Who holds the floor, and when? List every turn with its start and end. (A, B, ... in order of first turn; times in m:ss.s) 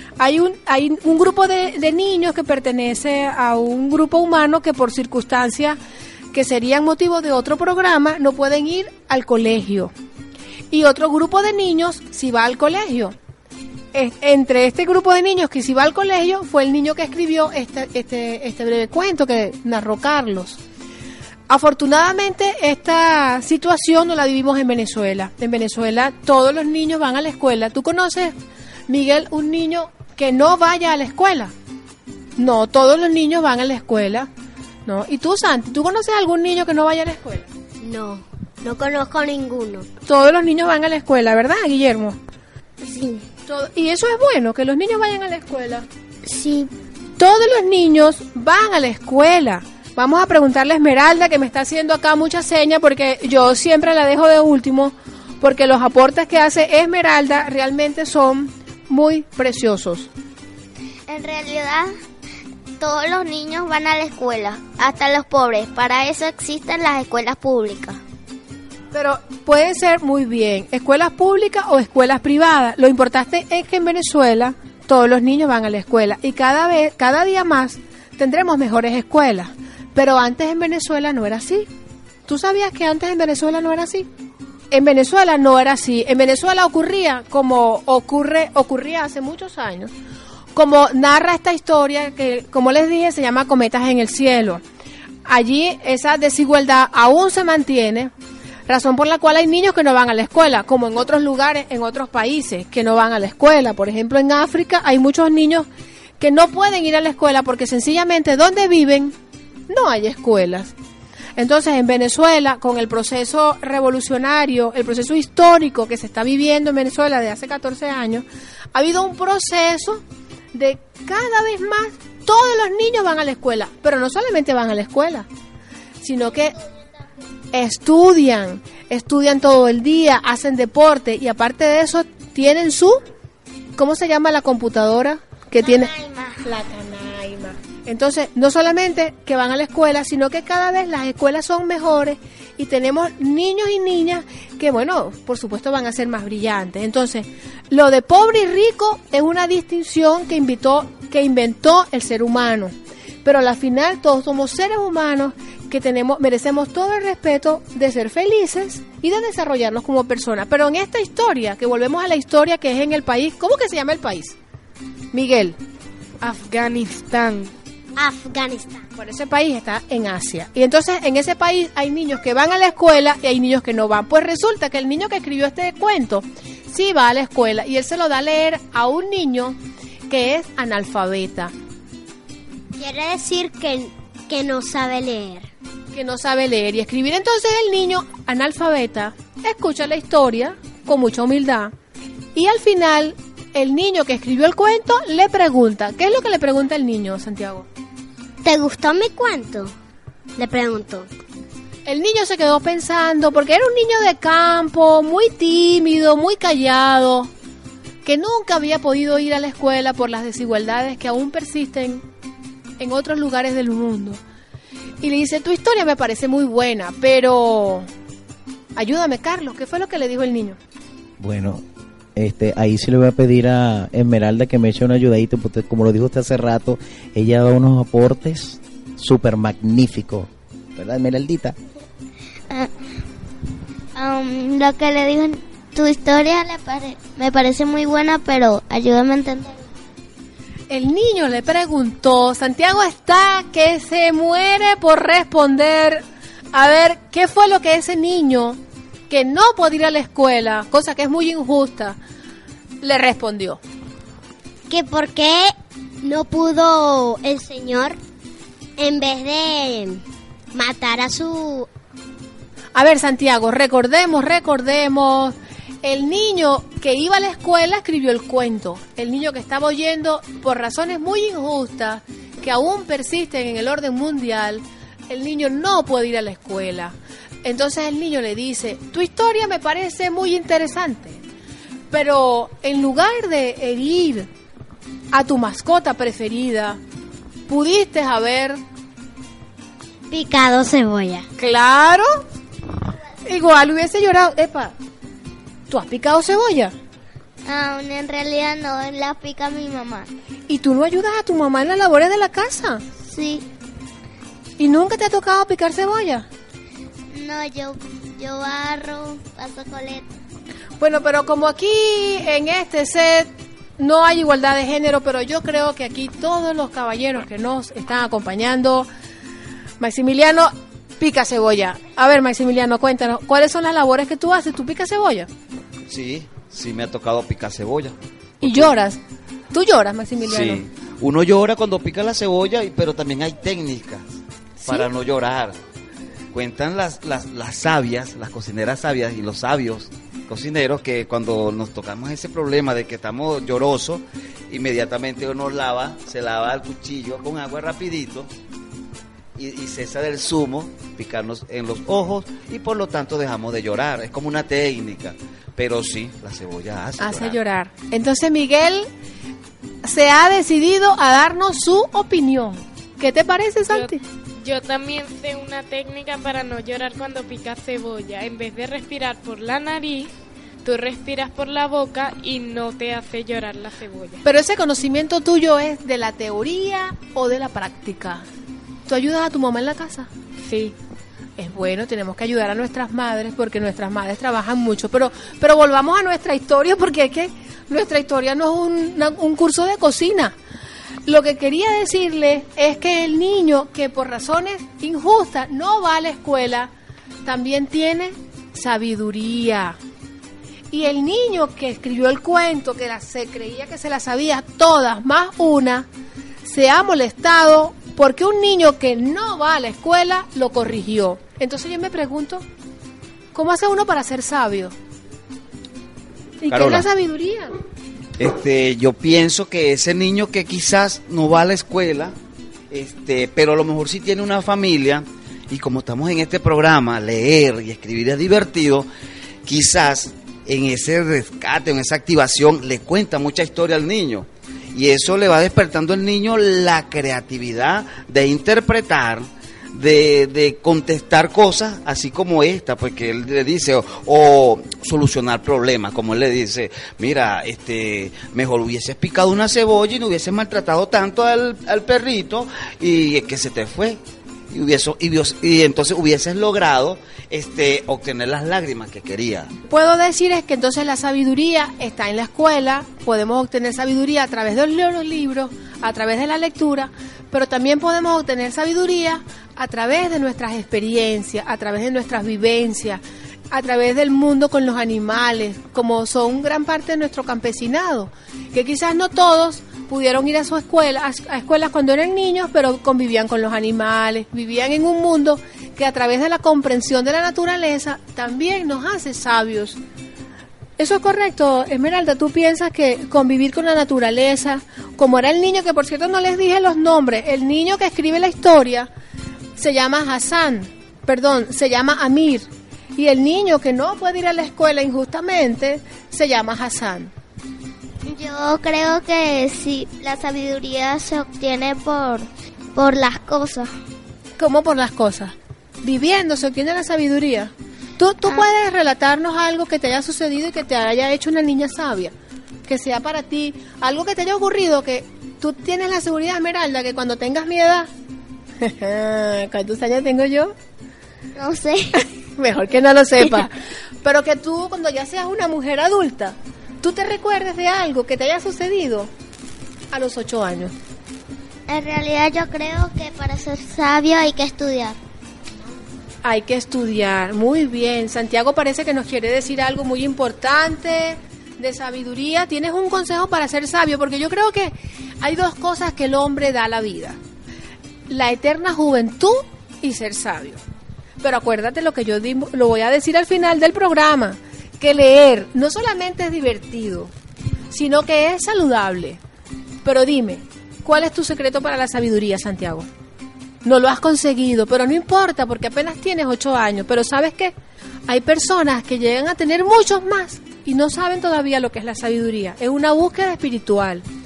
0:00.2-0:05.8 A
0:06.3-0:09.9 A
0:10.7-0:13.2 A
0:13.9-0:20.6 A
0:21.5-0:28.4 A
0:28.9-0:31.5 A
0:32.4-0:34.3 A
0:34.9-0:37.5 A
0:37.8-0:39.9 B
0:40.1-0:42.2 A
0:42.8-0:43.2 B
0:43.5-0:45.9 A
0:46.2-0:46.7 B
0:47.2-1:00.1 A
1:01.1-1:01.9 C
1:02.8-1:08.0 C
1:08.9-1:21.7 A
1:22.3-1:24.1 A
1:24.7-1:29.9 A
1:30.6-1:34.6 A
1:35.2-1:38.1 A
1:38.7-1:45.7 A
1:46.2-1:49.2 A
1:49.7-1:50.8 A
1:51.4-2:05.3 A
2:06.0-2:06.6 A
2:07.5-2:13.0 A
2:13.8-2:15.9 A
2:15.6-2:16.4 C
2:16.4-2:44.4 A
2:45.1-2:45.6 A
2:46.2-2:47.5 D
2:48.0-2:48.8 B
2:49.0-2:59.6 A
3:00.1-3:01.5 A
3:02.8-3:05.5 B
3:05.9-3:11.7 A
3:12.4-3:17.7 A
3:18.4-3:19.7 B
3:20.4-3:21.1 B
3:21.9-3:27.3 A
3:28.0-3:32.0 A
3:32.8-3:34.2 A
3:35.0-3:37.9 A
3:38.8-3:40.6 A
3:41.2-3:41.6 E
3:42.2-3:51.6 E
3:54.0-3:59.6 C
4:00.7-4:08.6 A
4:09.1-4:12.0 A
4:12.8-4:13.6 A
4:14.7-4:18.0 B
4:18.8-4:20.0 B
4:20.6-4:21.7 B
4:22.8-4:41.2 A
4:41.9-4:44.3 A
4:45.1-4:46.8 A
4:47.5-4:48.6 A
4:50.1-4:51.3 B
4:51.4-4:52.1 A
4:53.2-4:54.8 A
4:55.7-4:56.8 A
4:57.4-5:00.1 C
5:00.5-5:02.8 A
5:03.0-5:03.4 C
5:04.6-5:06.3 A
5:07.1-5:10.1 C
5:10.8-5:18.9 A
5:19.8-5:25.3 A
5:25.9-5:28.7 F
5:28.4-5:29.0 A
5:29.5-5:30.6 A
5:30.2-5:35.6 F
5:34.6-5:34.9 A
5:36.3-5:48.3 F
5:49.4-5:57.4 F
5:57.0-5:58.9 A
5:59.8-6:04.0 A
6:03.7-6:10.1 D
6:10.6-6:14.2 D
6:14.2-6:18.2 A
6:18.9-6:20.1 A
6:20.4-6:20.8 D
6:21.4-6:30.4 A
6:31.1-6:36.7 A
6:37.2-6:39.8 A
6:40.7-6:45.9 A
6:46.4-6:52.4 A
6:53.3-6:54.7 A
6:56.4-6:57.5 A
6:56.5-6:56.9 F
6:58.2-7:02.2 F
7:02.7-7:08.9 F
7:09.4-7:34.0 F
7:34.5-7:39.5 F
7:39.7-8:09.8 A
8:10.8-8:18.9 A
8:19.6-8:27.1 A
8:28.0-8:33.7 C
8:34.4-8:42.1 A
8:42.7-8:47.9 A
8:48.6-8:50.5 A
8:51.4-8:52.0 C
8:52.4-8:59.1 A
8:59.9-9:00.7 A
9:01.7-9:05.0 C
9:06.2-9:17.2 A
9:18.1-9:20.6 A
9:21.2-9:27.1 A
9:27.7-9:29.2 A
9:29.8-9:32.9 A
9:33.6-9:37.5 A
9:38.1-9:44.0 A